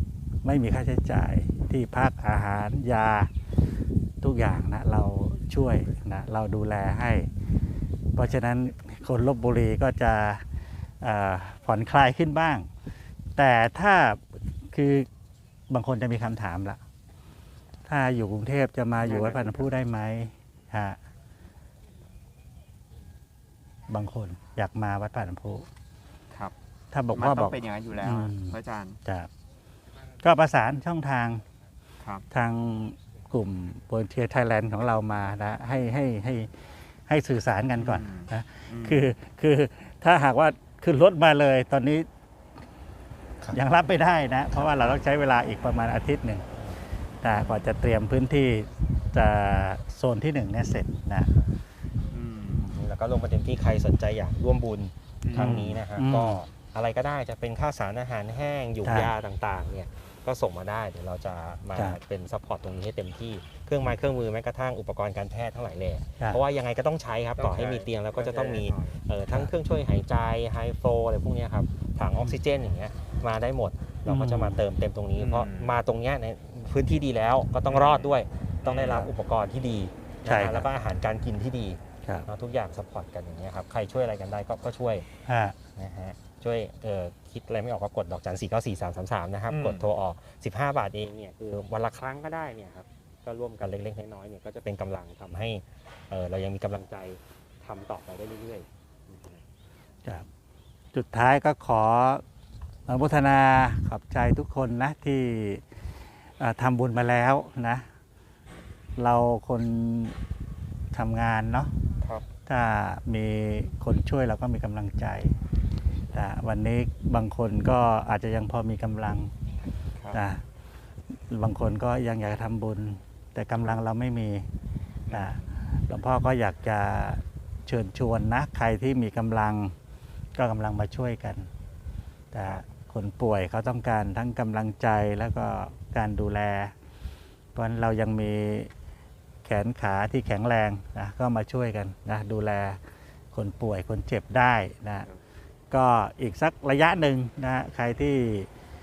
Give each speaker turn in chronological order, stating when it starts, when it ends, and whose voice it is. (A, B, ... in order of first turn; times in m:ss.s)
0:00.4-0:03.3 A
0:04.2-0:07.3 A
0:08.2-0:10.4 A
0:11.0-0:12.7 A
0:13.4-0:15.1 A
0:15.7-0:16.8 A
0:17.9-0:21.0 A
0:19.0-0:19.6 B
0:23.9-0:25.7 A
0:26.9-0:28.5 A
0:27.1-0:29.0 B
0:29.0-0:29.3 A
0:30.2-0:31.4 A
0:32.3-0:36.5 A
0:37.1-0:42.1 A
0:37.8-0:39.0 B
0:43.5-0:46.5 A
0:47.2-0:51.3 A
0:52.1-0:52.6 B
0:52.6-1:25.1 C
0:55.2-0:55.7 B
0:55.4-0:56.4 A
0:58.8-0:59.1 A
1:07.4-1:08.9 B
1:14.1-1:14.6 A
1:15.2-1:15.7 B
1:17.7-1:18.1 B
1:18.6-1:19.1 B
1:20.3-1:20.7 A
1:25.3-1:25.6 A
1:25.8-1:39.4 C
1:29.5-1:29.9 B
1:40.9-1:42.2 A
1:42.9-1:45.6 A
1:46.4-1:47.8 A
1:49.0-1:50.2 A
1:50.9-1:51.7 A
1:52.5-1:55.4 A
1:56.1-1:59.3 A
2:00.1-2:00.4 A
2:01.3-2:04.5 A
2:05.1-2:05.3 B
2:05.1-2:09.7 A
2:10.4-2:11.5 A
2:12.3-2:16.7 A
2:17.6-2:18.7 A
2:19.4-2:22.8 A
2:23.3-2:25.1 A
2:25.7-2:28.5 A